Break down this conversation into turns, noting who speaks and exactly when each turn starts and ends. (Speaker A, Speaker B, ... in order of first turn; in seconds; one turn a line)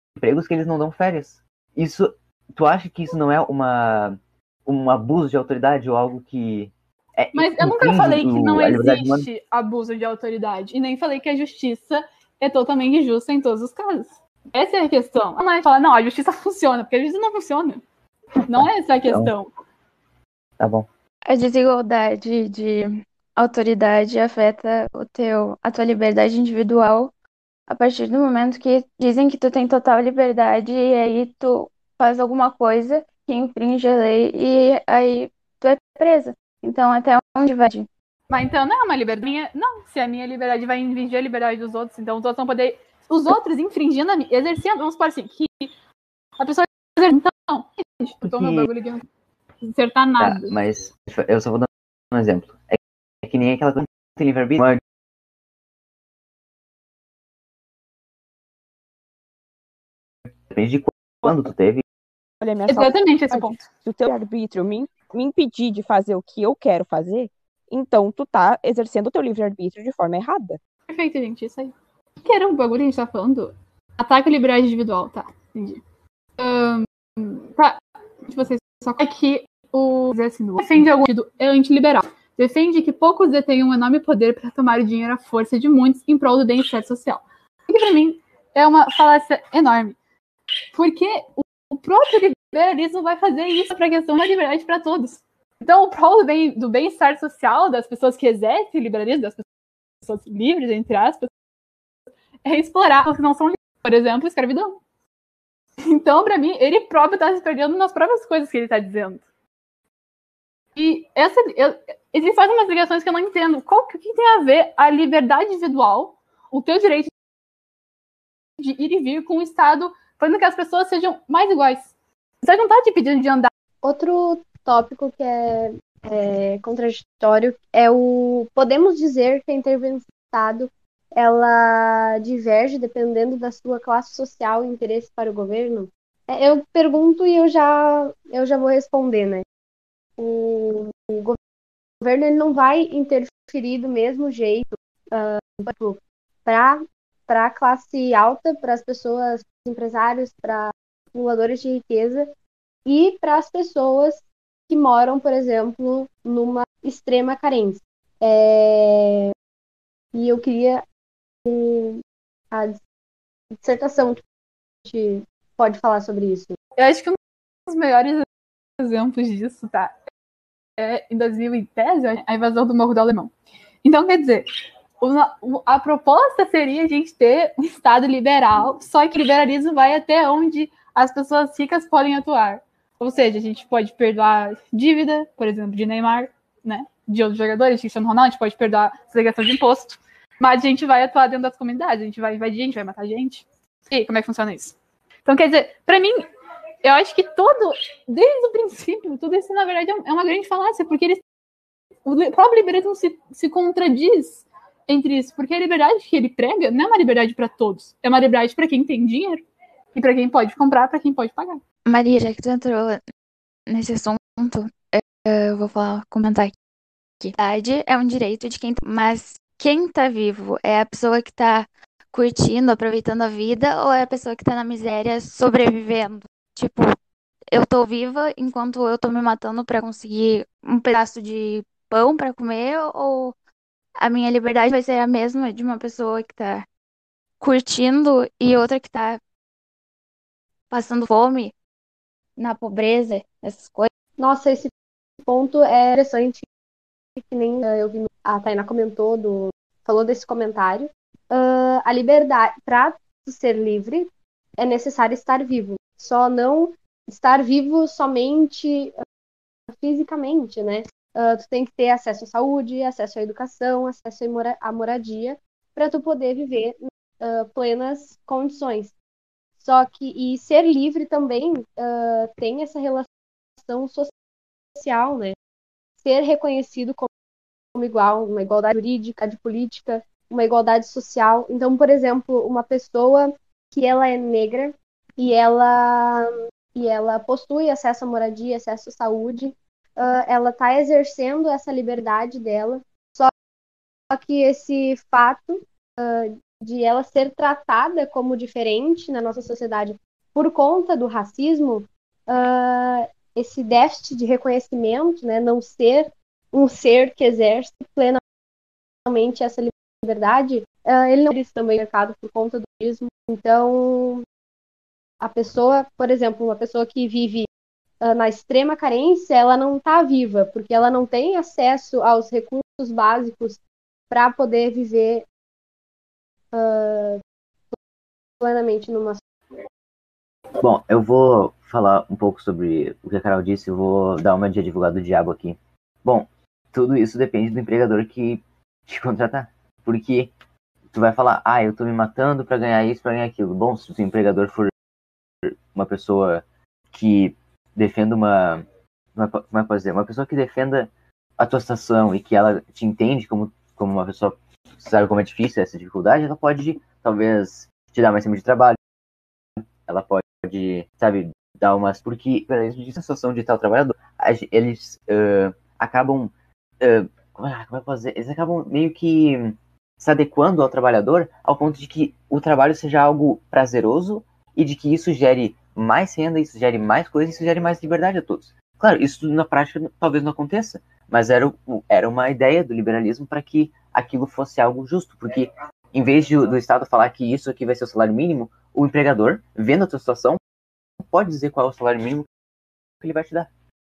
Speaker A: 0.2-9.3
Speaker B: 7.3-17.8
Speaker B: 18.4-19.5
Speaker A: 18.5-19.3
Speaker A: 20.6-20.9
Speaker C: 21.3-27.1
Speaker C: 27.7-37.9
Speaker B: 38.3-45.7
Speaker B: 46.4-49.0
Speaker A: 48.2-48.7
Speaker B: 49.6-50.5
Speaker A: 50.2-54.8
Speaker A: 60.5-61.8
Speaker D: 62.4-70.6
Speaker B: 62.7-63.6
Speaker B: 70.9-75.8
Speaker B: 76.4-90.0
Speaker B: 90.7-99.4
Speaker B: 100.0-101.3
Speaker B: 102.4-104.8
Speaker B: 105.8-109.2
Speaker B: 110.7-117.1
Speaker B: 118.6-123.5
Speaker E: 123.8-139.4
Speaker E: 140.2-141.4
Speaker E: 142.0-152.3
Speaker E: 152.8-159.3
Speaker E: 160.1-160.8
Speaker E: 161.4-162.0
Speaker E: 162.5-162.8
Speaker E: 163.6-164.2
Speaker E: 164.8-166.6
Speaker B: 166.8-168.2
Speaker B: 168.8-169.9
Speaker B: 170.8-173.3
Speaker B: 173.8-174.4
Speaker B: 175.0-196.2
Speaker B: 196.8-201.2
Speaker B: 202.0-209.4
Speaker B: 209.9-211.6
Speaker C: 211.8-213.0
Speaker C: 213.7-216.6
Speaker C: 217.2-226.9
Speaker C: 227.5-233.3
Speaker C: 234.0-236.7
Speaker C: 237.4-239.2
Speaker C: 240.7-241.5
Speaker C: 242.4-243.9
Speaker E: 244.2-244.7
Speaker E: 245.2-246.4
Speaker E: 247.2-258.9
Speaker E: 259.7-268.9
Speaker E: 269.6-273.1
Speaker E: 273.6-274.1
Speaker E: 274.8-275.4
Speaker E: 276.0-277.1
Speaker E: 277.7-293.3
Speaker E: 294.1-308.2
Speaker E: 309.1-314.2
Speaker E: 315.2-317.5
Speaker E: 318.0-325.3
Speaker E: 326.5-327.2
Speaker E: 328.4-329.2
Speaker A: 330.6-340.3
Speaker A: 340.9-344.7
Speaker A: 345.4-348.6
Speaker A: 349.1-358.8
Speaker A: 359.9-390.4
Speaker A: 391.1-392.3
Speaker A: 393.0-393.5